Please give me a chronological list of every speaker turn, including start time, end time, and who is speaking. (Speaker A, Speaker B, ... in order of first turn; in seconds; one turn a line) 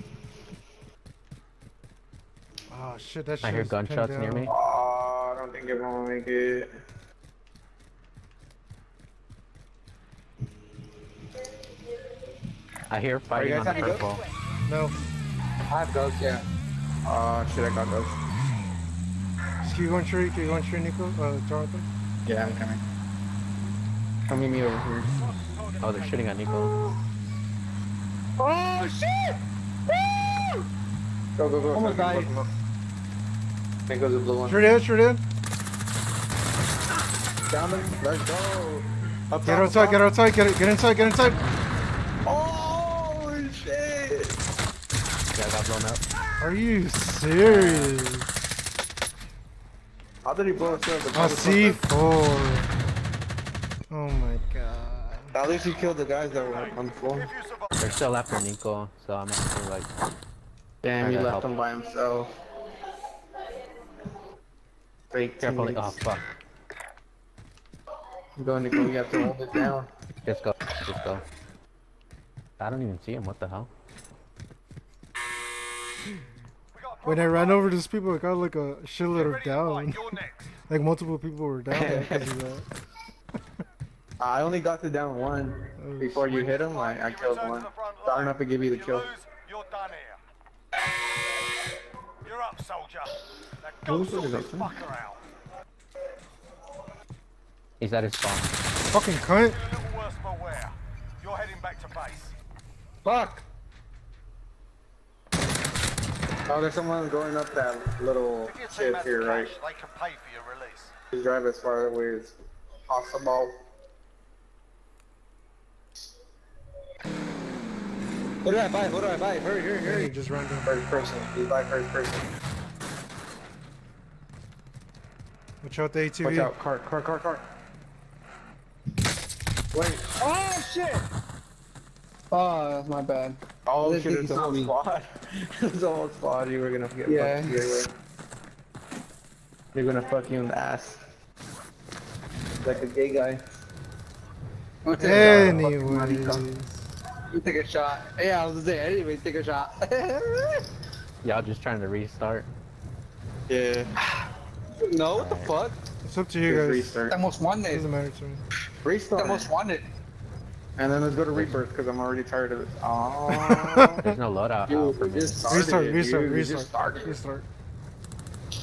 Speaker A: 2.7-4.5
Speaker B: 3.4-4.5
Speaker C: 4.5-6.7
Speaker B: 12.9-14.2
Speaker D: 13.3-14.1
Speaker C: 13.7-14.0
Speaker A: 14.7-15.0
Speaker D: 15.7-16.4
Speaker C: 17.0-18.2
Speaker A: 19.6-21.9
Speaker C: 22.2-22.8
Speaker C: 24.3-25.2
Speaker E: 25.2-26.2
Speaker B: 25.8-26.8
Speaker D: 28.4-30.6
Speaker C: 31.4-32.5
Speaker D: 31.7-32.3
Speaker C: 33.9-34.6
Speaker A: 34.4-35.2
Speaker C: 37.5-40.0
Speaker A: 39.5-41.4
Speaker C: 42.2-44.4
Speaker B: 45.3-46.0
Speaker A: 46.4-48.3
Speaker B: 47.5-48.0
Speaker C: 50.2-51.8
Speaker A: 51.1-52.7
Speaker A: 53.9-55.3
Speaker C: 55.3-57.3
Speaker E: 56.3-58.0
Speaker B: 57.8-59.9
Speaker C: 60.8-62.3
Speaker B: 61.0-61.5
Speaker C: 65.1-66.0
Speaker B: 65.4-66.3
Speaker C: 68.4-69.9
Speaker B: 70.2-71.2
Speaker B: 72.6-73.7
Speaker E: 76.7-77.7
Speaker A: 77.0-80.2
Speaker E: 79.1-80.5
Speaker A: 80.7-82.7
Speaker C: 81.7-82.3
Speaker C: 84.2-89.1
Speaker A: 85.8-86.6
Speaker E: 86.7-90.2
Speaker E: 92.2-95.2
Speaker C: 93.8-94.8
Speaker B: 97.8-98.5
Speaker A: 98.9-99.6
Speaker E: 99.5-102.3
Speaker D: 103.0-103.4
Speaker C: 106.5-109.5
Speaker E: 108.5-110.9
Speaker C: 111.1-112.3
Speaker C: 112.8-113.5
Speaker D: 118.4-120.1
Speaker A: 119.8-120.7
Speaker C: 120.6-122.3
Speaker A: 125.6-126.5
Speaker C: 126.2-127.4
Speaker C: 129.7-130.0
Speaker D: 130.2-131.0
Speaker D: 132.3-134.7
Speaker C: 133.7-137.9
Speaker D: 137.1-137.9
Speaker C: 139.7-141.0
Speaker D: 142.6-143.4
Speaker D: 144.8-146.4
Speaker A: 145.0-146.9
Speaker D: 147.3-150.6
Speaker B: 151.2-152.5
Speaker C: 153.5-153.9
Speaker D: 154.8-155.8
Speaker B: 155.1-155.5
Speaker A: 156.0-157.1
Speaker C: 156.4-157.2
Speaker D: 157.1-157.8
Speaker A: 157.7-158.4
Speaker C: 158.8-159.5
Speaker D: 159.2-159.8
Speaker C: 160.8-164.0
Speaker B: 161.3-161.6
Speaker A: 163.3-164.1
Speaker B: 164.0-165.5
Speaker D: 164.7-165.7
Speaker C: 164.7-167.2
Speaker A: 165.5-167.4